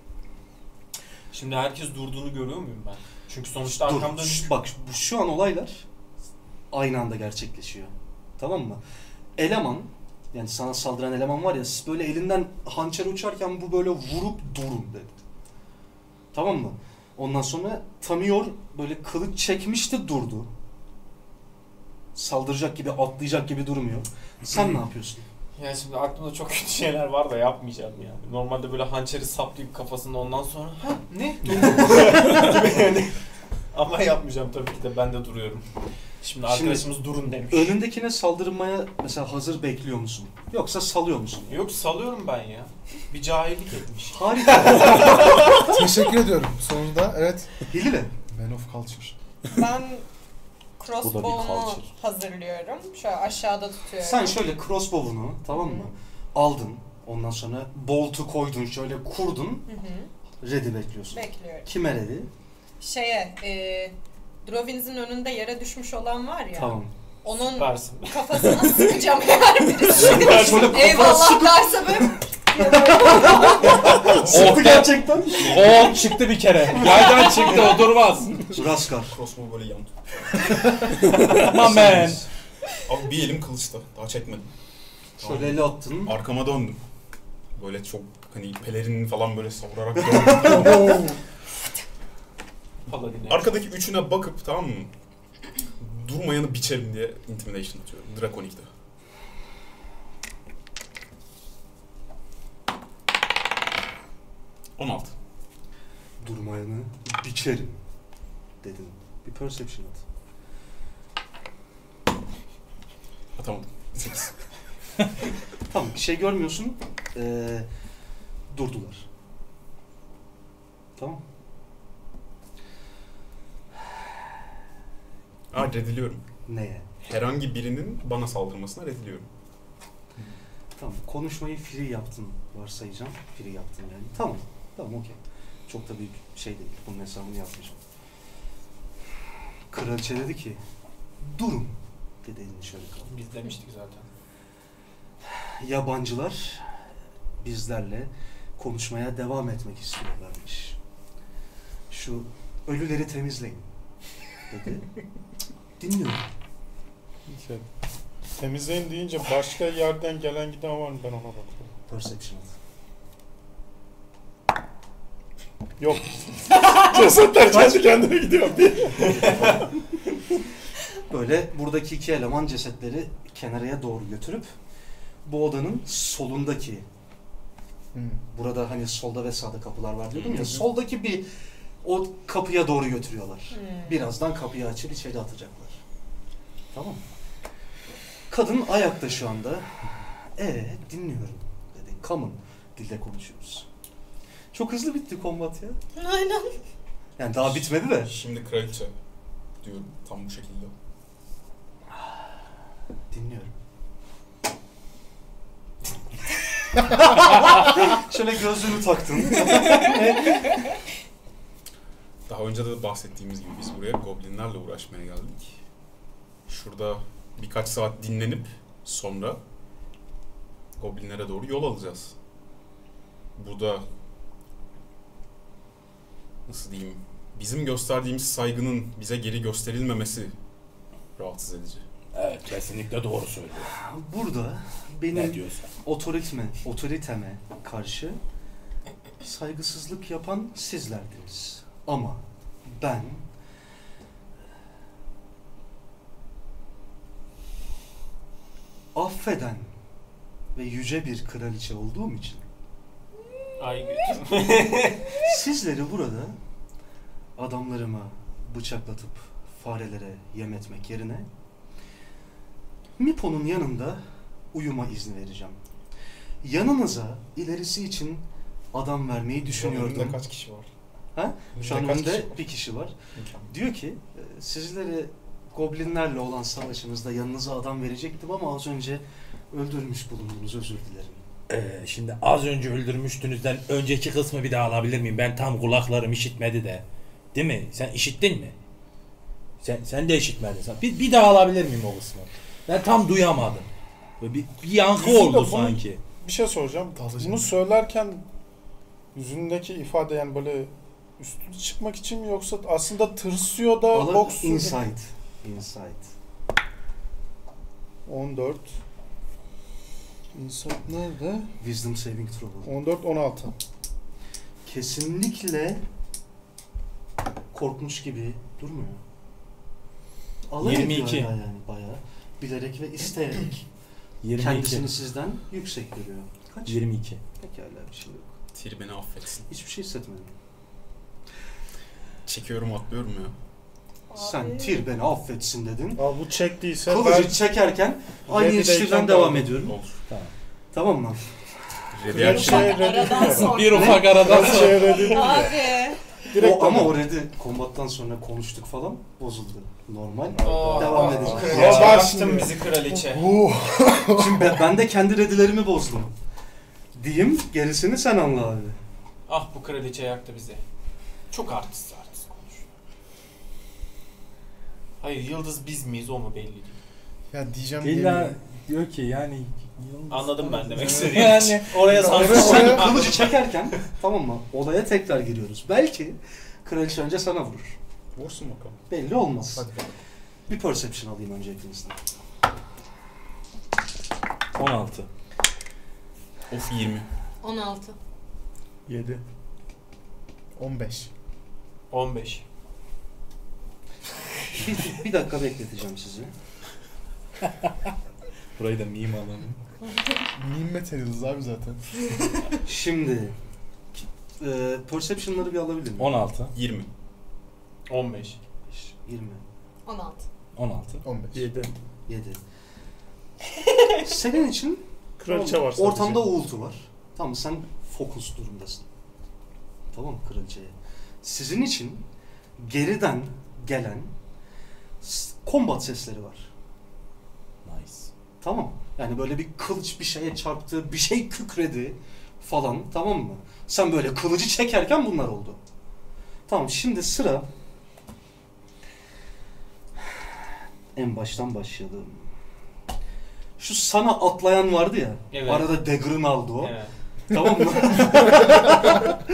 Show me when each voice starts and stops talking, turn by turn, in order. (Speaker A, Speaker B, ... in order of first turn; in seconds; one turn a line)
Speaker A: 1.3-4.5
Speaker B: 3.6-5.8
Speaker B: 6.7-8.8
Speaker B: 9.4-15.2
Speaker B: 16.3-20.5
Speaker B: 22.1-25.2
Speaker A: 25.6-35.7
Speaker B: 31.8-32.1
Speaker A: 36.2-37.8
Speaker B: 36.5-36.9
Speaker B: 37.4-41.6
Speaker A: 41.5-45.6
Speaker B: 44.1-45.5
Speaker C: 45.5-49.1
Speaker B: 47.7-48.1
Speaker D: 49.5-50.0
Speaker D: 50.8-54.4
Speaker E: 51.0-51.9
Speaker B: 54.0-59.6
Speaker D: 55.5-55.9
Speaker D: 59.7-60.1
Speaker B: 60.4-62.3
Speaker D: 61.1-61.7
Speaker D: 62.8-74.2
Speaker B: 66.5-66.9
Speaker A: 67.3-68.7
Speaker B: 69.9-75.9
Speaker A: 70.0-71.3
Speaker F: 74.1-76.1
Speaker E: 74.2-78.5
Speaker D: 76.9-77.5
Speaker B: 77.5-77.7
Speaker B: 78.5-79.2
Speaker F: 79.0-80.7
Speaker E: 81.0-82.2
Speaker B: 81.3-82.2
Speaker F: 82.8-84.5
Speaker F: 85.2-86.8
Speaker B: 85.2-86.1
Speaker F: 87.5-91.0
Speaker B: 90.0-91.0
Speaker C: 90.5-91.2
Speaker A: 92.9-93.7
Speaker F: 93.3-94.9
Speaker F: 95.8-98.7
Speaker F: 104.8-105.2
Speaker B: 106.2-107.8
Speaker B: 108.6-110.0
Speaker F: 113.3-114.4
Speaker B: 115.7-117.7
Speaker B: 118.5-119.1
Speaker F: 125.5-126.2
Speaker B: 126.5-126.9
Speaker F: 127.0-129.3
Speaker B: 130.8-137.8
Speaker B: 139.7-140.6
Speaker B: 141.2-143.1
Speaker A: 143.1-144.1
Speaker B: 145.3-146.7
Speaker B: 147.4-150.8
Speaker B: 151.9-153.7
Speaker B: 154.5-154.9
Speaker B: 155.8-156.2
Speaker E: 157.3-157.6
Speaker G: 158.4-161.7
Speaker B: 161.9-162.5
Speaker G: 165.8-169.4
Speaker B: 169.2-169.6
Speaker F: 169.2-169.6
Speaker B: 171.1-174.5
Speaker B: 175.2-176.8
Speaker C: 177.9-178.2
Speaker B: 178.3-181.3
Speaker F: 180.1-180.6
Speaker B: 181.8-185.8
Speaker D: 183.5-184.0
Speaker B: 186.7-187.0
Speaker B: 188.3-189.7
Speaker B: 190.4-193.7
Speaker B: 194.5-195.8
Speaker D: 195.9-196.6
Speaker B: 197.2-198.1
Speaker F: 197.4-198.9
Speaker F: 199.6-200.7
Speaker B: 203.1-203.5
Speaker B: 207.0-210.5
Speaker F: 212.3-215.6
Speaker F: 216.5-219.4
Speaker F: 220.8-222.2
Speaker F: 223.4-223.9
Speaker F: 226.5-230.3
Speaker F: 231.2-231.8
Speaker E: 232.2-233.7
Speaker B: 233.7-238.2
Speaker E: 235.1-235.7
Speaker B: 239.2-243.2
Speaker B: 248.9-249.7
Speaker B: 250.6-252.4
Speaker A: 253.6-255.2
Speaker B: 255.2-256.4
Speaker B: 257.4-261.3
Speaker B: 263.0-264.0
Speaker B: 264.5-265.6
Speaker B: 266.4-270.2
Speaker F: 269.4-270.7
Speaker B: 271.1-272.9
Speaker F: 271.5-272.5
Speaker F: 273.1-273.5
Speaker B: 273.5-281.2
Speaker E: 281.5-288.6
Speaker E: 289.6-293.7
Speaker E: 294.2-296.0
Speaker G: 294.9-298.2
Speaker C: 296.9-297.5
Speaker G: 299.1-304.8
Speaker B: 303.9-306.1
Speaker G: 308.1-308.8
Speaker G: 310.3-311.5
Speaker B: 311.6-312.7
Speaker G: 312.6-313.5
Speaker B: 314.7-315.8
Speaker B: 317.5-319.0
Speaker B: 320.5-323.7
Speaker E: 320.6-321.3
Speaker E: 324.2-324.9
Speaker B: 324.4-328.3
Speaker E: 326.7-327.2
Speaker F: 328.5-329.5
Speaker B: 329.5-330.3
Speaker F: 332.2-333.4
Speaker D: 334.1-334.9
Speaker B: 334.2-336.0
Speaker G: 336.0-337.5
Speaker B: 336.9-339.8
Speaker G: 338.3-339.7
Speaker F: 339.6-340.0
Speaker B: 340.7-342.3
Speaker F: 341.9-343.1
Speaker G: 342.1-345.7
Speaker D: 342.2-346.0
Speaker E: 343.2-345.1
Speaker G: 346.2-347.1
Speaker B: 346.3-352.1
Speaker A: 350.4-353.4
Speaker E: 350.4-351.4
Speaker G: 350.8-352.6
Speaker C: 352.8-354.7
Speaker B: 354.1-356.1
Speaker B: 356.9-358.8
Speaker A: 359.3-360.6
Speaker A: 361.3-362.6
Speaker A: 365.0-366.8
Speaker C: 367.3-368.4
Speaker E: 367.8-372.7
Speaker A: 370.1-373.4
Speaker C: 370.8-372.9
Speaker B: 372.1-377.8
Speaker F: 378.1-378.8
Speaker B: 378.9-379.7
Speaker C: 379.6-379.9
Speaker B: 380.5-382.0
Speaker E: 384.6-385.1
Speaker F: 386.5-387.1
Speaker D: 387.4-388.0
Speaker G: 388.9-389.2
Speaker C: 390.6-391.1
Speaker A: 391.9-392.4
Speaker B: 394.6-396.3
Speaker E: 398.6-399.6
Speaker C: 400.4-401.9
Speaker B: 402.6-403.4
Speaker B: 404.4-406.2
Speaker E: 406.0-406.5
Speaker F: 406.5-406.9
Speaker A: 407.9-408.4
Speaker B: 408.7-409.4
Speaker D: 409.9-410.2
Speaker E: 410.6-411.0
Speaker C: 411.0-411.5
Speaker G: 411.3-411.7
Speaker B: 412.1-412.4
Speaker D: 413.8-414.1
Speaker B: 414.1-418.9
Speaker G: 415.2-416.2
Speaker B: 419.9-422.1
Speaker B: 422.6-424.1
Speaker B: 425.0-426.5
Speaker E: 427.6-428.1
Speaker B: 428.4-435.6
Speaker B: 436.5-437.5
Speaker B: 440.9-442.3
Speaker B: 443.6-446.7
Speaker A: 445.3-445.8
Speaker A: 446.6-446.9
Speaker B: 447.3-449.1
Speaker C: 448.1-448.6